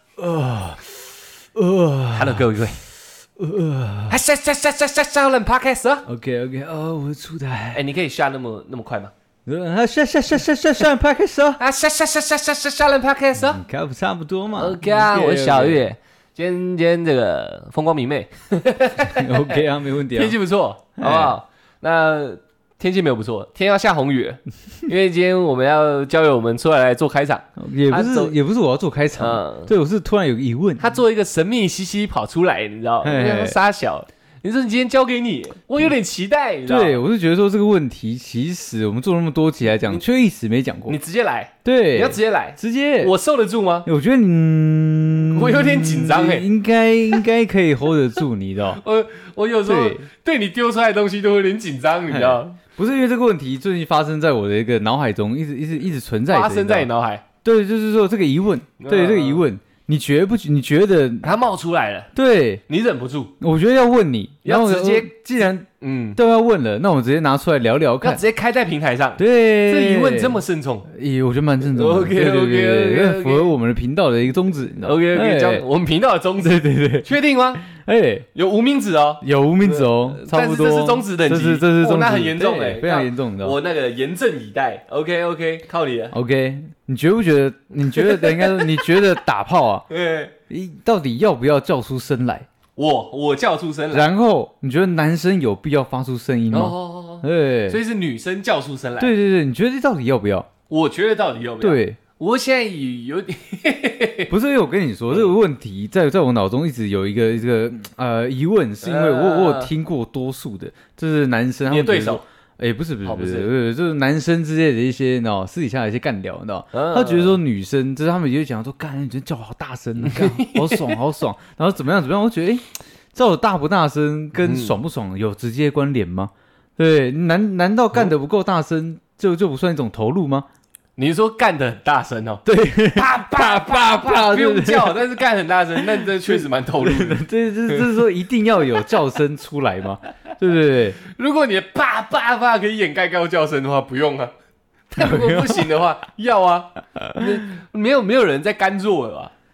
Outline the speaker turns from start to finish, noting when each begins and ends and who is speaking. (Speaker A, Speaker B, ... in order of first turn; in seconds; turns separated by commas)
Speaker A: 0.2-2.6, Speaker B: 2.1-2.8, Speaker A: 3.4-4.2, Speaker B: 4.1-6.1, Speaker A: 6.1-7.8, Speaker B: 7.7-9.1, Speaker A: 9.4-11.6, Speaker B: 11.6-13.6, Speaker A: 13.4-15.8, Speaker B: 14.6-28.4, Speaker A: 19.1-20.4, Speaker A: 21.0-21.4, Speaker A: 27.6-30.9, Speaker B: 29.2-29.7, Speaker B: 30.8-37.0, Speaker A: 33.0-33.6, Speaker A: 36.6-41.0, Speaker B: 40.9-43.9, Speaker A: 41.6-43.1, Speaker A: 43.8-48.8, Speaker B: 45.3-46.5, Speaker B: 48.8-52.5, Speaker A: 49.6-50.0, Speaker A: 52.1-56.9, Speaker B: 56.3-57.2, Speaker A: 57.4-61.3, Speaker B: 58.8-59.4, Speaker B: 61.2-62.1, Speaker A: 62.1-62.6, Speaker B: 62.7-63.3, Speaker A: 63.4-68.2, Speaker B: 64.4-65.1, Speaker B: 65.8-66.2, Speaker B: 68.0-70.9, Speaker A: 69.2-75.6, Speaker B: 71.6-73.5, Speaker B: 74.8-77.7, Speaker A: 76.4-77.1, Speaker A: 77.6-78.3, Speaker B: 78.3-86.2, Speaker A: 79.2-83.6, Speaker A: 86.1-89.8, Speaker B: 87.8-88.9, Speaker B: 89.9-90.3, Speaker A: 90.5-92.5, Speaker B: 92.8-94.1, Speaker A: 93.9-97.8, Speaker B: 96.5-99.1, Speaker A: 99.0-100.5, Speaker B: 100.7-104.3, Speaker A: 101.6-102.0, Speaker A: 104.3-130.5, Speaker B: 108.8-109.7, Speaker B: 111.7-112.2, Speaker B: 113.0-113.5, Speaker B: 116.7-117.4, Speaker B: 120.0-120.9, Speaker B: 124.4-124.7, Speaker B: 131.0-137.8, Speaker A: 132.4-135.1, Speaker A: 135.8-141.0, Speaker B: 141.0-144.3, Speaker B: 144.9-149.3, Speaker A: 145.0-145.7